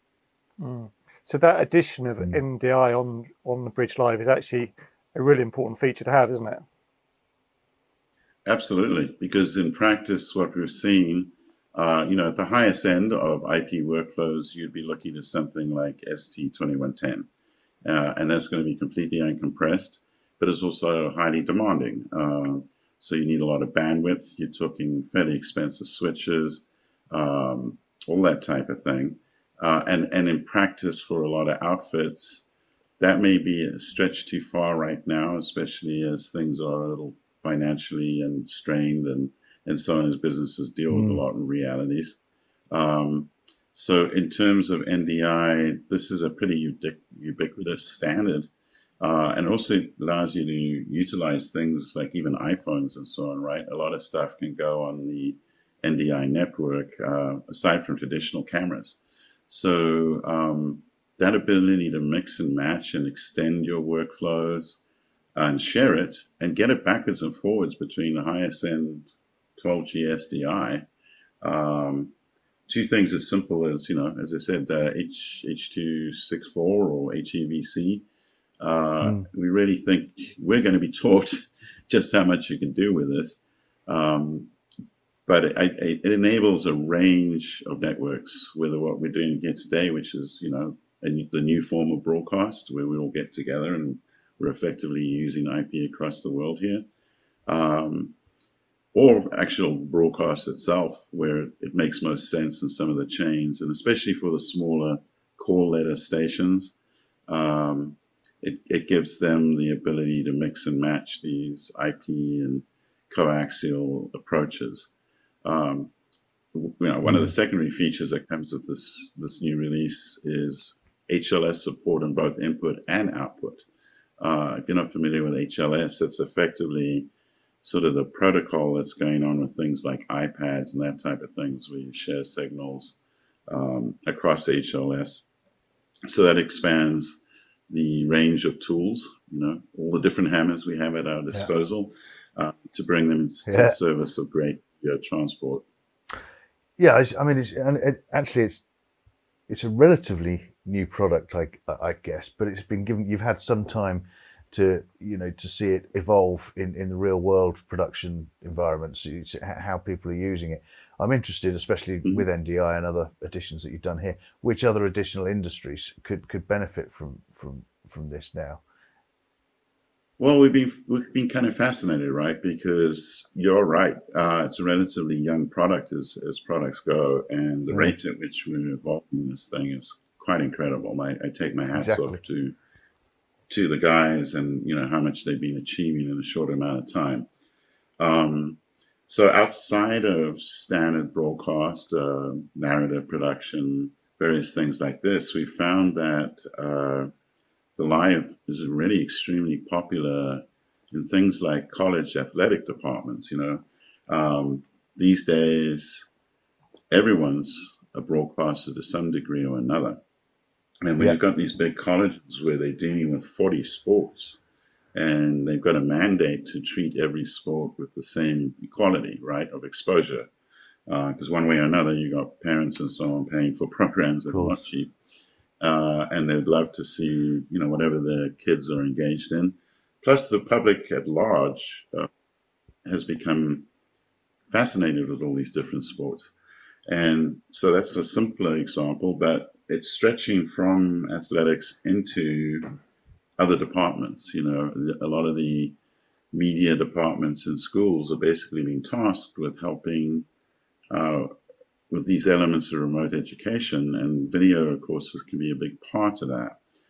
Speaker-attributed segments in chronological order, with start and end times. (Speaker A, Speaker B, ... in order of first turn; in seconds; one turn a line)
Speaker A: 0.6-6.7
Speaker B: 8.4-17.3
Speaker B: 17.8-32.4
Speaker B: 33.0-42.2
Speaker C: 40.9-41.2
Speaker B: 42.7-48.5
Speaker B: 49.0-64.8
Speaker B: 65.3-70.8
Speaker B: 71.4-72.1
Speaker B: 72.7-78.0
Speaker B: 78.6-84.5
Speaker B: 85.2-96.8
Speaker B: 97.5-98.1
Speaker B: 98.9-106.8
Speaker B: 107.3-114.9
Speaker B: 115.4-115.9
Speaker B: 116.5-123.7
Speaker C: 117.0-117.3
Speaker B: 124.2-127.1
Speaker B: 127.6-133.0
Speaker B: 133.5-135.2
Speaker B: 136.1-145.6
Speaker C: 143.5-143.7
Speaker C: 146.8-148.6
Speaker C: 149.5-168.6
Speaker B: 170.2-182.6
Speaker C: 177.7-178.0
Speaker C: 181.7-182.2
Speaker B: 183.5-187.3
Speaker B: 188.0-197.1
Speaker B: 197.8-206.1
Speaker B: 206.9-210.0
Speaker B: 210.8-214.4
Speaker B: 214.9-220.3
Speaker B: 220.9-224.9
Speaker C: 224.3-224.6
Speaker B: 225.6-232.1
Speaker B: 232.8-233.7
Speaker B: 234.5-236.3
Speaker B: 236.9-242.7
Speaker B: 243.4-245.7
Speaker B: 246.3-250.2
Speaker B: 250.9-251.3
Speaker B: 251.9-256.6